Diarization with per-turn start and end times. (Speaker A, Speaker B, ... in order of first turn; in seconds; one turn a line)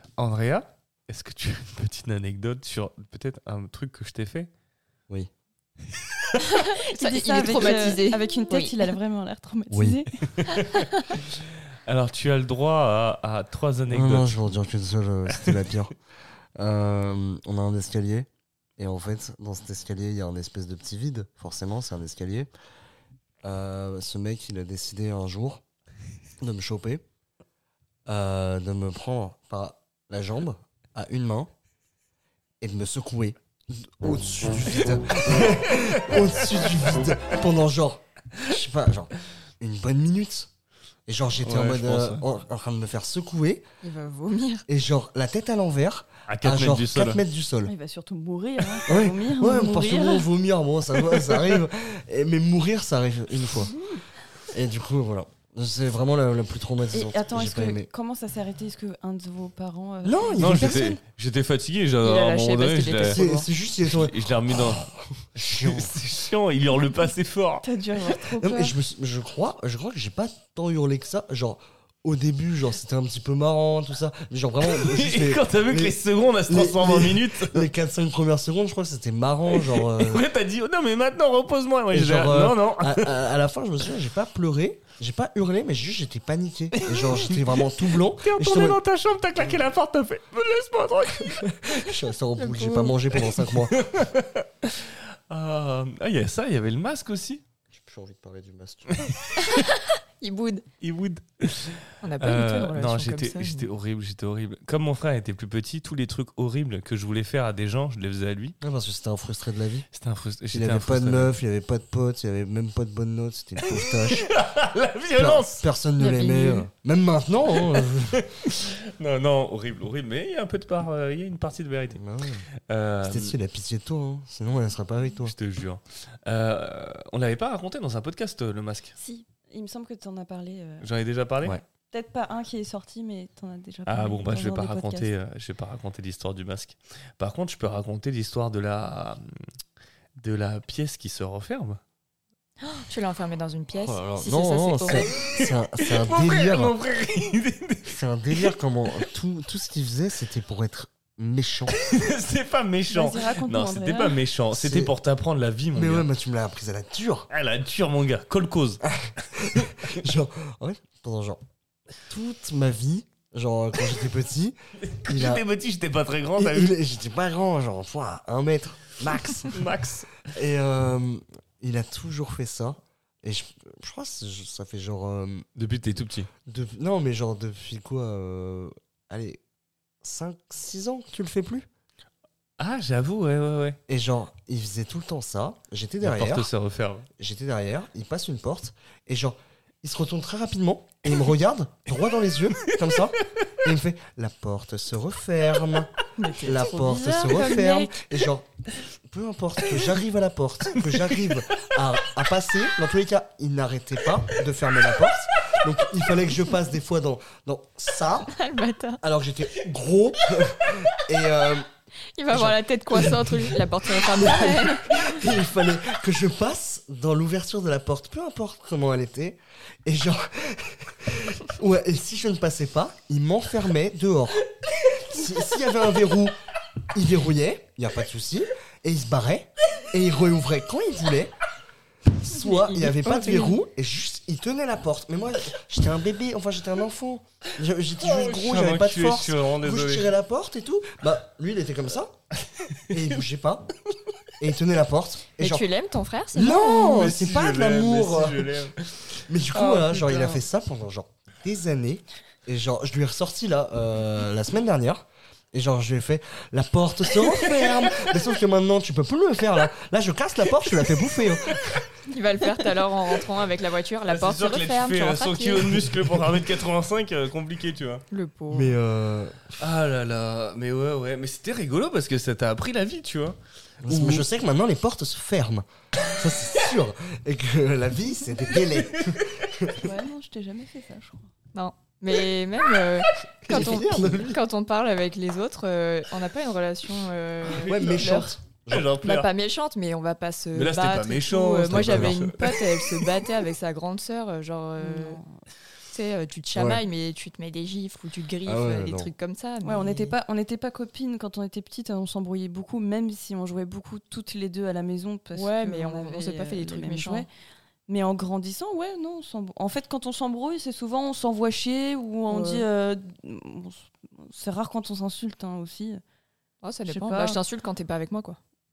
Speaker A: 0.2-4.5
Speaker A: 6.0-6.4
Speaker B: 6.4-9.0
Speaker C: 6.9-10.1
Speaker D: 9.7-10.1
Speaker A: 10.4-10.8
Speaker B: 10.6-11.2
Speaker A: 11.9-14.5
Speaker D: 13.9-15.9
Speaker D: 16.6-18.3
Speaker D: 18.8-22.5
Speaker D: 23.4-25.6
Speaker D: 26.4-27.0
Speaker D: 28.1-31.5
Speaker D: 32.6-40.5
Speaker A: 35.9-36.3
Speaker D: 41.1-43.6
Speaker A: 41.4-42.2
Speaker B: 43.8-44.6
Speaker D: 44.7-47.7
Speaker A: 46.3-47.2
Speaker C: 47.6-50.3
Speaker D: 48.9-53.8
Speaker D: 54.5-57.9
Speaker C: 56.9-60.8
Speaker D: 60.0-61.0
Speaker A: 60.4-63.2
Speaker B: 62.0-63.5
Speaker D: 63.0-65.9
Speaker A: 63.8-67.7
Speaker C: 67.6-68.8
Speaker D: 68.4-80.2
Speaker A: 74.6-77.7
Speaker A: 79.5-83.2
Speaker D: 81.9-88.8
Speaker A: 86.7-91.5
Speaker D: 91.4-93.8
Speaker B: 92.4-93.0
Speaker A: 93.4-97.4
Speaker D: 97.7-99.1
Speaker A: 99.0-99.5
Speaker B: 99.4-100.7
Speaker A: 100.8-108.6
Speaker B: 102.0-103.7
Speaker D: 108.6-109.9
Speaker A: 109.9-111.4
Speaker D: 110.5-114.3
Speaker A: 113.6-115.7
Speaker D: 115.2-118.3
Speaker B: 116.0-116.7
Speaker A: 117.6-122.0
Speaker D: 122.0-122.5
Speaker A: 122.7-123.4
Speaker D: 123.0-125.3
Speaker A: 125.3-128.9
Speaker C: 129.0-130.9
Speaker A: 130.8-131.6
Speaker C: 131.9-135.1
Speaker A: 133.9-139.4
Speaker A: 140.2-141.8
Speaker B: 142.6-145.1
Speaker D: 143.8-146.7
Speaker A: 145.0-149.0
Speaker D: 147.9-151.8
Speaker A: 151.7-156.1
Speaker C: 152.9-154.2
Speaker D: 154.5-154.9
Speaker D: 155.7-157.3
Speaker A: 157.3-158.8
Speaker D: 158.8-161.4
Speaker D: 162.1-165.4
Speaker A: 164.8-166.8
Speaker D: 166.4-169.6
Speaker A: 169.5-170.2
Speaker D: 170.3-175.5
Speaker A: 175.6-176.3
Speaker D: 176.5-179.4
Speaker D: 180.0-181.7
Speaker A: 182.6-183.8
Speaker D: 183.9-186.5
Speaker A: 186.0-187.1
Speaker D: 187.2-208.3
Speaker B: 196.2-197.9
Speaker C: 196.8-197.9
Speaker A: 200.8-201.3
Speaker B: 208.3-209.0
Speaker D: 209.0-211.7
Speaker B: 212.2-215.2
Speaker D: 212.3-226.3
Speaker D: 226.9-231.3
Speaker D: 232.1-242.1
Speaker B: 232.3-233.6
Speaker A: 238.0-240.1
Speaker A: 242.5-242.8
Speaker D: 242.9-243.7
Speaker D: 244.4-245.7
Speaker B: 245.4-247.1
Speaker D: 246.3-248.6
Speaker A: 246.9-250.4
Speaker D: 249.3-261.9
Speaker A: 257.2-258.1
Speaker B: 262.1-265.9
Speaker A: 264.1-268.0
Speaker B: 268.1-268.8
Speaker D: 268.5-269.6
Speaker A: 269.6-274.3
Speaker D: 273.9-279.9
Speaker A: 278.5-279.5
Speaker C: 279.8-281.3
Speaker B: 281.5-288.4
Speaker D: 283.4-284.4
Speaker D: 287.5-288.9
Speaker A: 288.7-289.3
Speaker B: 289.0-295.2
Speaker A: 290.6-293.2
Speaker D: 291.7-292.2
Speaker C: 294.8-295.3
Speaker B: 295.9-300.2
Speaker D: 296.6-296.8
Speaker D: 298.4-299.1
Speaker C: 299.6-307.3
Speaker B: 305.3-307.3
Speaker C: 307.9-316.0
Speaker B: 312.3-312.7
Speaker B: 316.6-318.4
Speaker C: 316.9-317.4